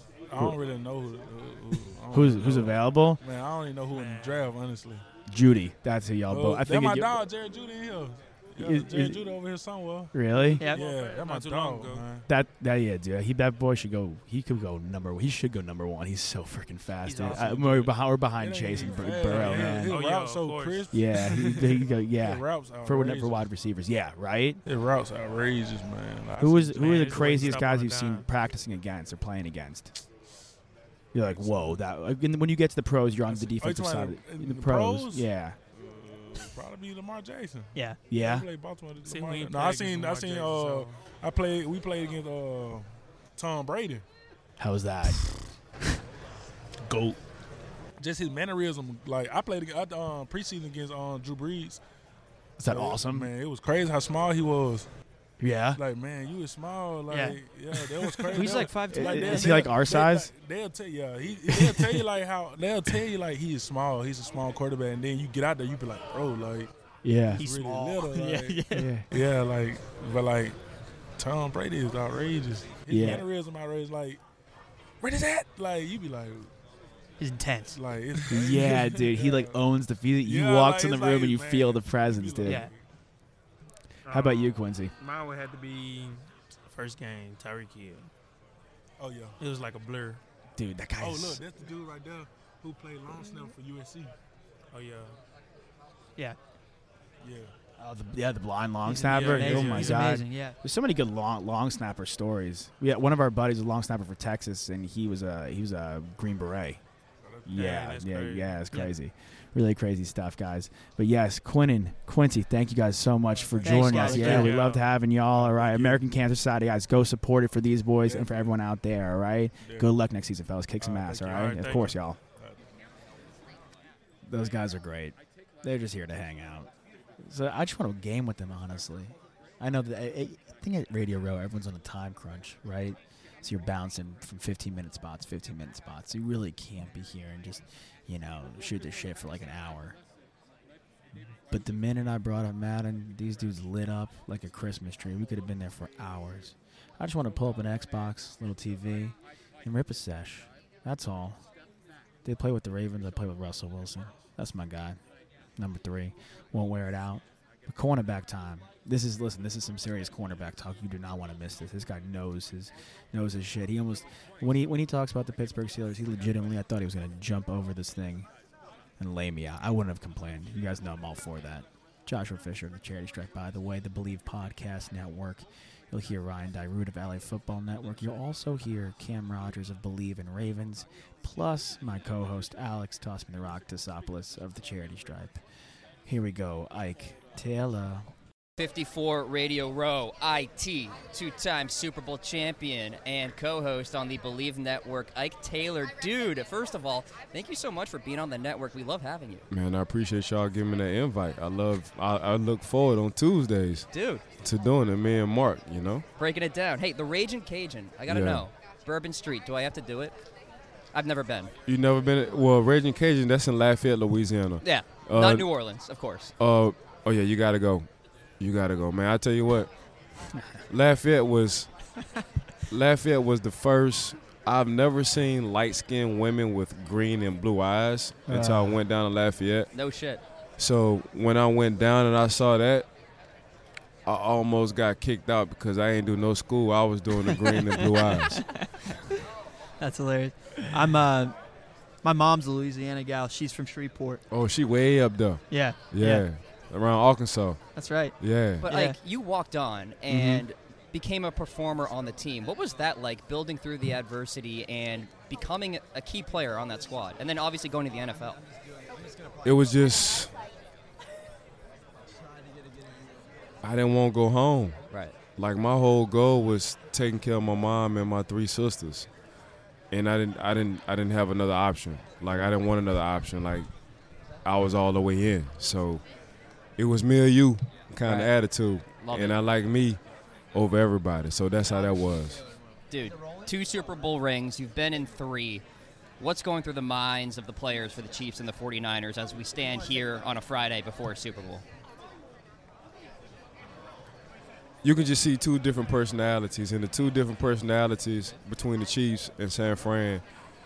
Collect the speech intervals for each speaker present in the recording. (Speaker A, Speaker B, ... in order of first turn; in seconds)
Speaker A: 0.3-5.0, 6.3-12.3, 17.2-23.4, 24.6-27.6, 31.3-31.8, 33.3-44.0, 46.9-47.2, 48.0-51.8, 52.7-54.9, 55.8-66.7, 67.3-70.6, 71.2-74.2, 75.0-76.5, 77.7-79.6, 80.2-82.8, 89.0-89.3, 91.0-94.1, 97.2-97.5, 107.2-107.5, 113.3-114.6, 115.3-116.0, 118.0-118.5, 119.6-119.9, 120.8-122.6
Speaker B: 2.1-3.2, 5.3-7.2, 8.6-9.3, 10.1-10.6, 12.3-20.0, 20.9-24.6, 26.4-29.9, 31.1-35.6, 38.1-38.5, 44.6-45.3, 52.6-53.3, 55.4-55.8, 58.5-60.3, 67.0-67.4, 68.7-69.1, 72.9-73.3, 78.3-82.7, 84.1-84.9, 90.5-91.4, 97.8-106.8, 107.4-122.2, 124.2-140.0, 141.5-151.4, 152.2-155.0, 155.6-168.3, 169.0-185.4, 186.1-188.1, 228.3-228.8, 250.1-250.4
Speaker C: 3.9-4.5, 10.6-12.1, 19.2-21.6, 26.7-28.2, 39.0-41.0, 84.0-88.1, 89.4-90.2, 94.7-95.2, 99.0-100.0, 107.5-108.6, 113.9-114.9, 121.2-121.9
Speaker D: 10.6-10.8, 17.0-17.4, 57.1-57.4, 58.3-59.5, 67.3-68.9, 77.2-77.8, 82.4-82.7, 98.8-100.5, 113.6-114.5, 237.4-239.0, 239.8-241.3, 242.0-244.2, 245.5-246.2, 247.7-249.0
Speaker E: 188.6-199.4, 203.9-204.2, 206.2-210.2, 210.9-211.5, 214.6-216.3, 229.7-230.2, 248.6-258.4, 264.9-265.2, 278.0-278.3, 278.9-279.4, 282.9-285.6, 286.2-291.6
Speaker F: 199.5-203.9, 204.4-206.0, 208.1-208.4, 211.7-215.5, 216.4-217.9, 218.4-219.7, 220.7-221.7, 222.7-229.7, 230.6-232.9, 234.1-238.4, 244.3-247.6, 248.2-248.6, 259.4-260.3, 263.6-269.1, 269.9-273.7, 274.4-276.0, 276.8-280.0, 280.5-282.4, 294.8-300.2